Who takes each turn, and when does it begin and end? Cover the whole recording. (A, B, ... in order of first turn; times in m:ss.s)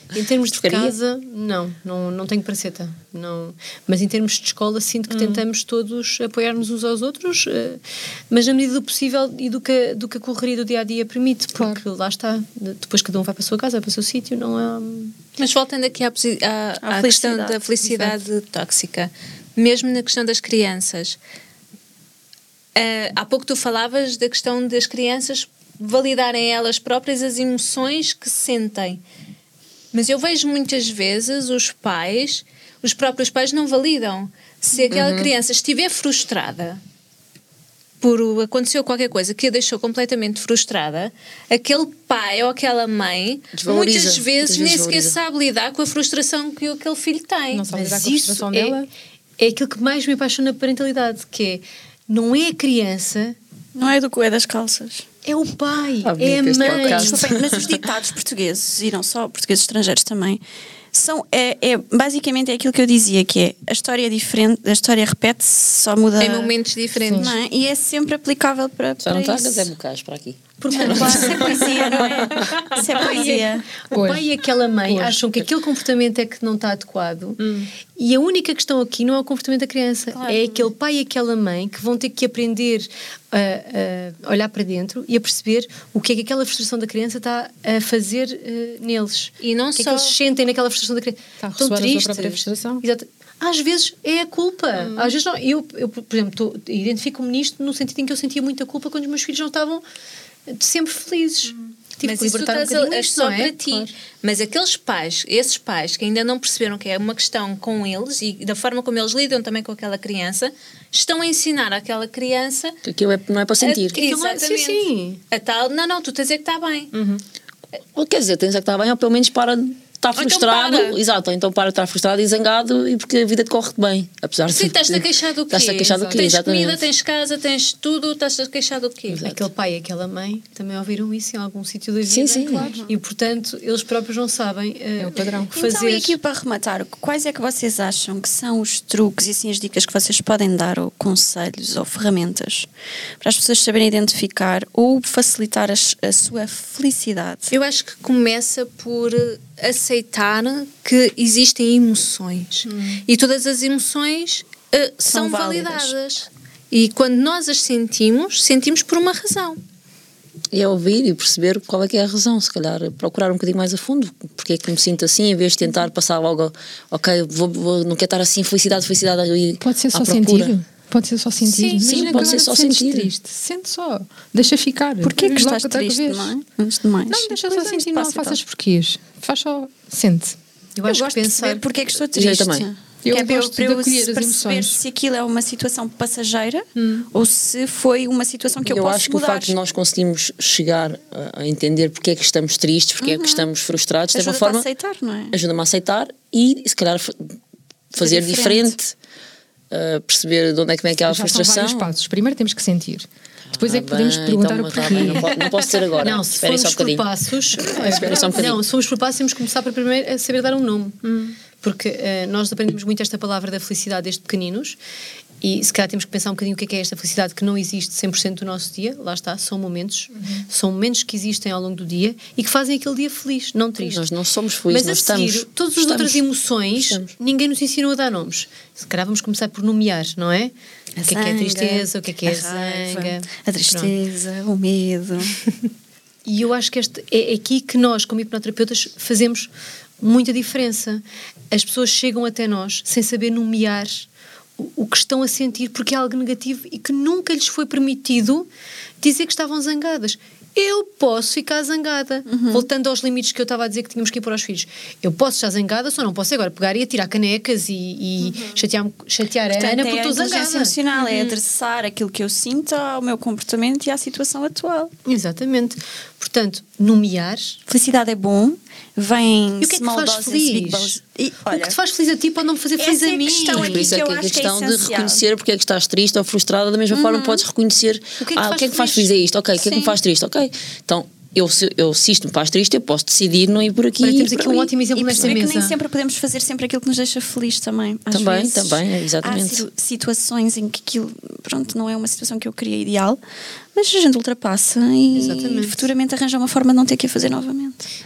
0:00.1-0:15.2 A
0:00.5-0:00.9 B
0:05.1-0:05.4 C
0:11.6-0:11.8 C
0:15.4-0:21.2 D
0:16.8-0:18.1 E
0:22.8-0:29.0 D
0:29.9-0:36.8 D
0:34.9-0:35.3 B
0:38.0-0:47.6 D
0:43.5-0:45.2 B
0:47.5-0:48.9 C
0:47.7-0:48.8 A
0:49.4-0:53.4 A
0:53.7-0:55.0 E
0:55.2-0:57.3 A
0:56.0-0:57.9 B
0:56.6-1:00.4 E
1:00.9-1:06.5 E
1:06.2-1:07.4 D
1:07.0-1:07.3 C
1:07.2-1:09.7 E
1:09.0-1:11.4 B
1:10.6-1:12.2 A
1:10.7-1:13.8 E
1:13.1-1:13.4 A
1:13.9-1:14.3 C
1:13.9-1:39.8 A
1:14.8-1:15.2 C
1:17.4-1:17.7 C
1:29.4-1:30.2 D
1:31.4-1:32.8 C
1:34.8-1:35.1 C
1:40.5-1:43.6 A
1:42.0-1:52.8 D
1:52.8-1:54.0 B
1:53.6-1:56.9 D
1:53.9-1:55.2 A
1:56.9-1:57.2 C
1:57.9-2:06.8 B
2:00.2-2:01.0 D
2:04.5-2:09.3 D
2:05.9-2:06.2 C
2:09.1-2:09.4 B
2:09.2-2:16.2 A
2:12.0-2:12.7 B
2:12.6-2:12.9 E
2:15.0-2:15.5 C
2:15.5-2:22.7 E
2:23.2-2:27.5 E
2:27.5-2:39.6 D
2:32.6-2:33.0 C
2:35.0-2:35.9 E
2:40.5-2:50.5 B
2:49.6-2:56.3 C
2:51.5-2:52.2 D
2:51.8-2:53.1 B
2:55.0-2:58.4 E
2:57.1-3:00.4 C
3:00.8-3:01.6 A
3:00.8-3:09.6 E
3:02.1-3:02.7 B
3:03.0-3:04.8 C
3:06.8-3:07.1 C
3:08.6-3:14.7 B
3:13.0-3:13.5 E
3:14.1-3:15.4 E
3:15.3-3:17.4 B
3:17.9-3:18.9 B
3:17.9-3:18.8 E
3:19.7-3:21.9 B
3:21.1-3:25.3 C
3:23.5-3:27.0 B
3:25.3-3:25.7 D
3:26.0-3:31.0 A
3:27.7-3:28.5 C
3:27.8-3:28.6 B
3:31.0-3:31.4 C
3:31.5-3:34.8 A
3:35.4-3:44.1 A
3:40.1-3:40.5 C
3:43.8-3:46.2 B
3:44.7-3:53.9 A
3:46.8-3:47.1 B
3:51.0-3:55.4 E
3:56.2-3:59.5 A
4:00.0-4:08.5 A
4:09.0-4:20.8 A
4:12.2-4:12.7 E
4:18.3-4:18.6 E
4:19.5-4:24.9 E
4:20.9-4:21.4 D
4:25.0-4:27.6 A
4:27.7-4:31.8 E
4:29.6-4:34.0 A
4:32.8-4:35.2 E
4:33.5-4:45.4 B
4:36.9-4:37.4 E
4:38.2-4:39.1 A
4:39.5-4:40.0 E
4:44.0-4:45.8 A
4:44.9-4:53.2 E
4:48.1-4:49.6 B
4:53.7-4:57.8 E
4:55.1-4:55.9 A